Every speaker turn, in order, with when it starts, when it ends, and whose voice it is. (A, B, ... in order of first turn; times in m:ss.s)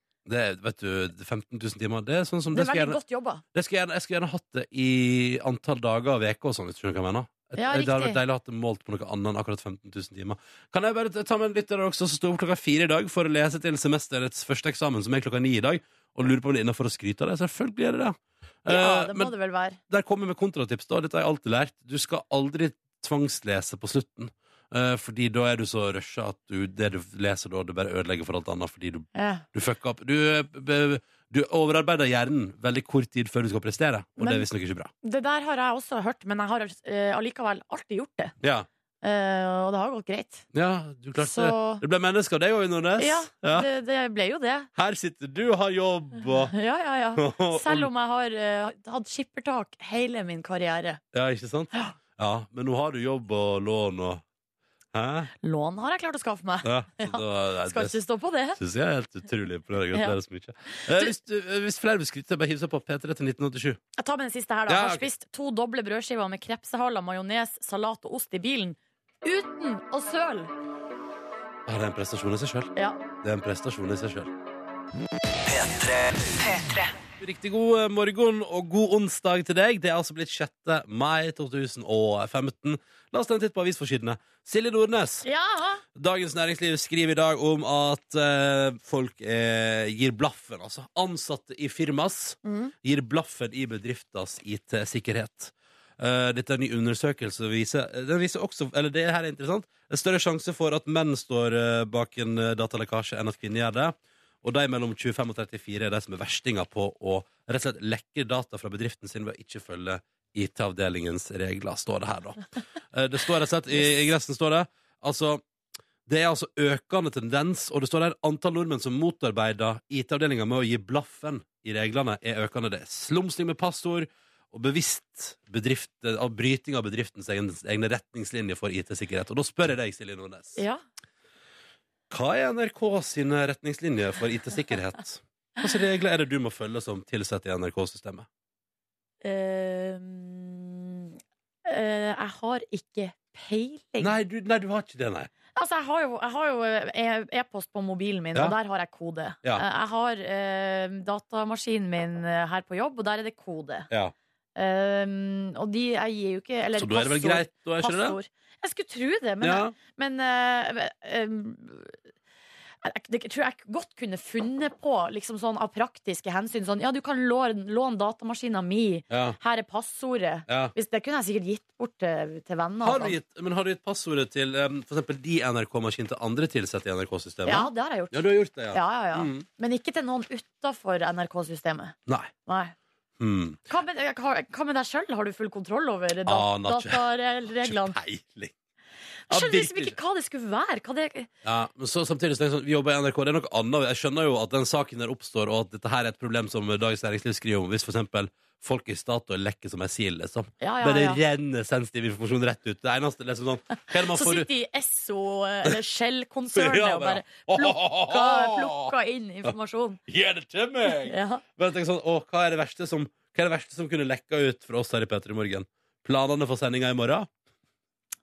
0:00.2-0:03.0 A
0:02.5-0:03.4 B
0:03.5-0:19.3 A
0:07.6-0:08.2 B
0:18.7-0:19.8 B
0:19.9-0:34.9 A
0:29.1-0:29.4 B
0:34.2-0:34.4 B
0:35.0-0:38.3 B
0:38.4-0:38.7 A
0:39.0-0:40.4 B
0:40.5-0:43.7 A
0:41.2-0:41.8 B
0:43.0-0:44.7 B
0:44.7-0:46.5 A
0:46.5-0:51.0 B
0:47.2-0:47.9 A
0:51.1-0:54.2 A
0:54.9-0:55.3 A
0:55.4-0:58.6 B
0:56.6-0:58.0 A
0:58.6-1:03.8 A
1:00.7-1:01.1 B
1:04.0-1:10.5 B
1:04.7-1:05.1 A
1:11.6-1:14.3 A
1:16.4-1:16.8 B
1:17.2-1:25.2 A
1:25.2-1:25.8 B
1:25.9-1:52.4 A
1:32.4-1:32.7 B
1:52.9-1:55.4 A
1:56.0-2:10.6 A
2:12.1-2:18.3 A
2:19.2-2:24.1 B
2:24.0-2:25.3 A
2:25.5-2:33.9 B
2:34.6-2:42.0 B
2:36.8-2:38.2 A
2:39.4-2:39.8 A
2:42.8-2:53.2 B
2:49.1-2:49.4 A
2:50.5-2:50.7 A
2:52.8-2:59.4 A
2:57.4-3:01.9 B
3:02.1-3:02.3 A
3:02.4-3:02.7 B
3:03.2-3:03.6 A
3:03.7-3:08.0 B
3:06.2-3:08.5 A
3:09.3-3:10.0 A
3:09.3-3:11.3 B
3:11.4-3:24.5 A
3:20.6-3:21.2 B
3:23.7-3:30.0 B
3:26.5-3:29.5 A
3:30.1-3:37.3 A
3:30.9-3:31.4 B